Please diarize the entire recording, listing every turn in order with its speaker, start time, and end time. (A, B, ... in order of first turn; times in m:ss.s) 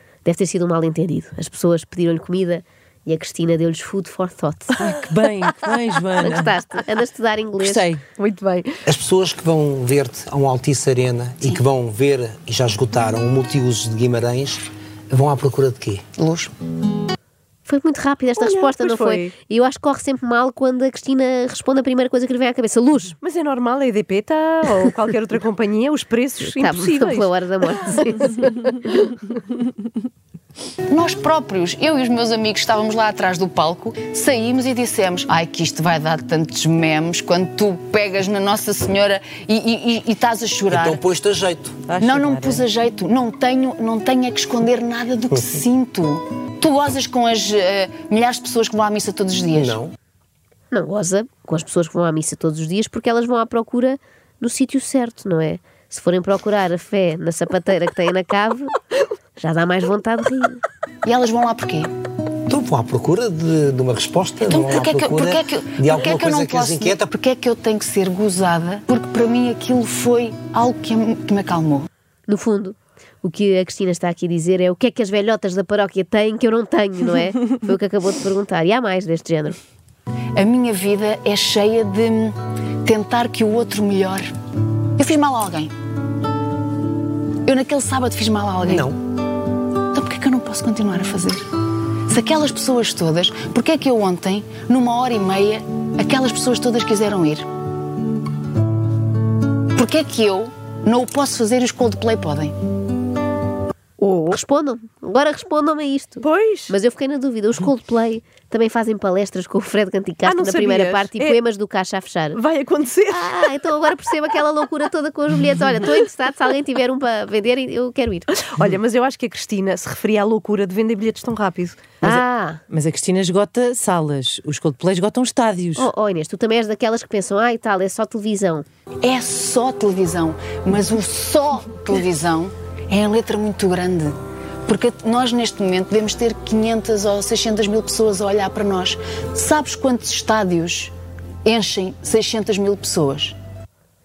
0:00.2-0:04.9 A
0:04.8-0:06.5 B
0:06.2-0:07.9 A
0:07.6-0:08.0 B
0:08.1-0:08.8 C
0:08.8-0:16.0 D
0:16.2-0:16.5 E
0:17.6-0:23.2 A
0:18.4-0:19.3 C
0:23.2-0:27.3 C
0:26.4-0:29.1 A
0:30.9-0:41.0 E
0:40.7-0:41.8 D
0:41.8-0:42.6 B
0:42.0-0:49.8 E
0:49.5-0:49.9 D
0:50.7-0:58.7 A
0:59.4-1:00.6 A
1:01.0-1:01.9 E
1:02.5-1:07.1 D
1:04.4-1:11.9 E
1:12.3-1:19.6 A
1:20.4-1:24.3 E
1:25.0-1:25.7 E
1:27.4-1:28.9 E
1:28.6-1:29.0 D
1:29.9-1:31.5 E
1:32.1-1:37.5 E
1:39.7-1:42.5 E
1:44.0-1:44.4 C
1:44.3-1:52.4 A
1:46.2-1:46.7 C
1:50.2-1:51.4 C
1:52.3-1:53.5 C
1:53.1-1:58.3 A
1:58.4-2:02.0 C
2:02.0-2:02.6 A
2:02.0-2:05.9 B
2:05.8-2:08.6 A
2:09.0-2:14.1 E
2:14.7-2:20.9 E
2:21.4-2:23.4 E